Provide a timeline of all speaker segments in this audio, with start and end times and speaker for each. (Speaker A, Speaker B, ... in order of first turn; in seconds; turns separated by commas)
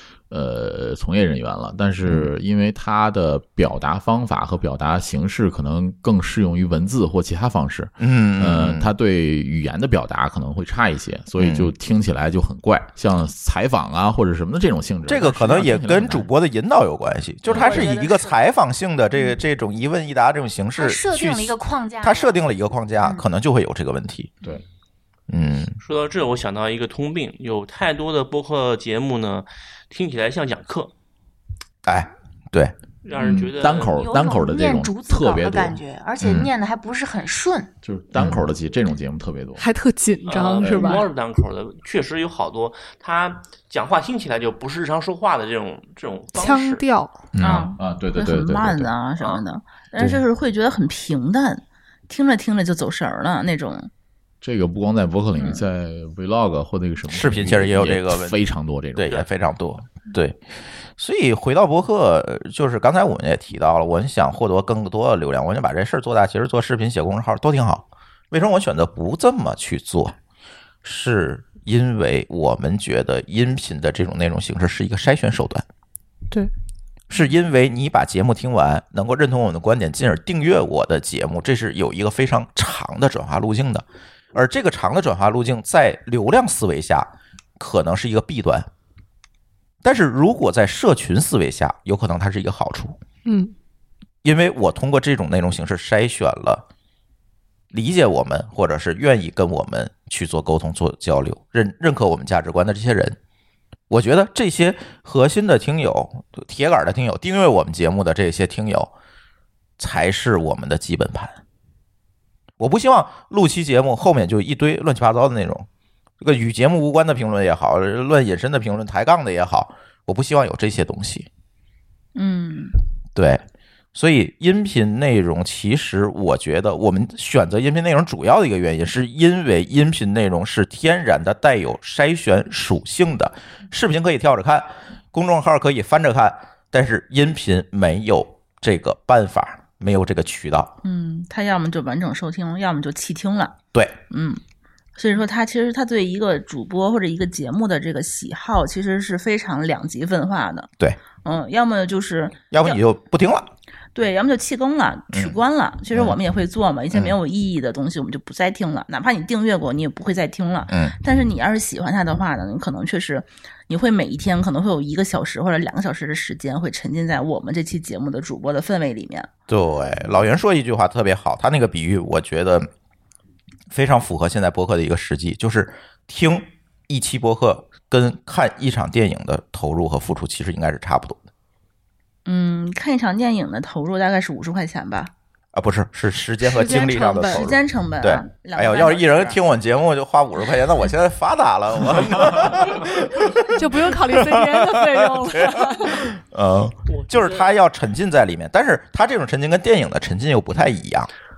Speaker A: 0.3-16.3, Speaker B: 8.0-8.9, Speaker B: 11.4-11.7, Speaker B: 15.1-24.3, Speaker A: 17.5-17.9, Speaker C: 17.5-18.4, Speaker C: 20.8-22.3, Speaker B: 25.3-25.8, Speaker D: 25.8-30.9, Speaker B: 31.8-32.7, Speaker D: 33.0-34.0, Speaker A: 33.1-35.8, Speaker C: 34.0-37.7, Speaker B: 36.2-36.5, Speaker A: 37.8-39.6, Speaker B: 38.2-38.4, Speaker E: 39.6-41.1, Speaker D: 40.2-46.8, Speaker A: 40.6-41.0, Speaker E: 46.4-47.3, Speaker A: 47.3-48.9, Speaker F: 47.4-53.9, Speaker A: 54.4-59.2, Speaker F: 55.4-55.6, Speaker B: 57.1-58.4, Speaker B: 59.0-60.4, Speaker B: 61.0-70.2, Speaker B: 70.8-75.6, Speaker B: 77.1-88.7, Speaker B: 89.8-93.0, Speaker E: 93.2-93.5, Speaker B: 94.2-96.6, Speaker B: 97.7-103.2, Speaker B: 103.9-108.9, Speaker B: 109.8-111.4, Speaker B: 112.6-115.7, Speaker B: 116.2-121.3, Speaker F: 122.2-122.8, Speaker B: 123.1-123.4, Speaker B: 123.9-140.7, Speaker F: 140.8-144.4, Speaker F: 145.0-150.7, Speaker F: 151.2-152.8, Speaker B: 152.5-153.5, Speaker F: 153.9-169.3, Speaker B: 160.7-160.9, Speaker B: 169.5-172.7, Speaker B: 173.7-181.2, Speaker F: 182.2-185.1, Speaker B: 185.5-201.1, Speaker E: 186.4-187.5, Speaker F: 187.3-189.4, Speaker E: 193.6-196.1, Speaker D: 196.9-197.5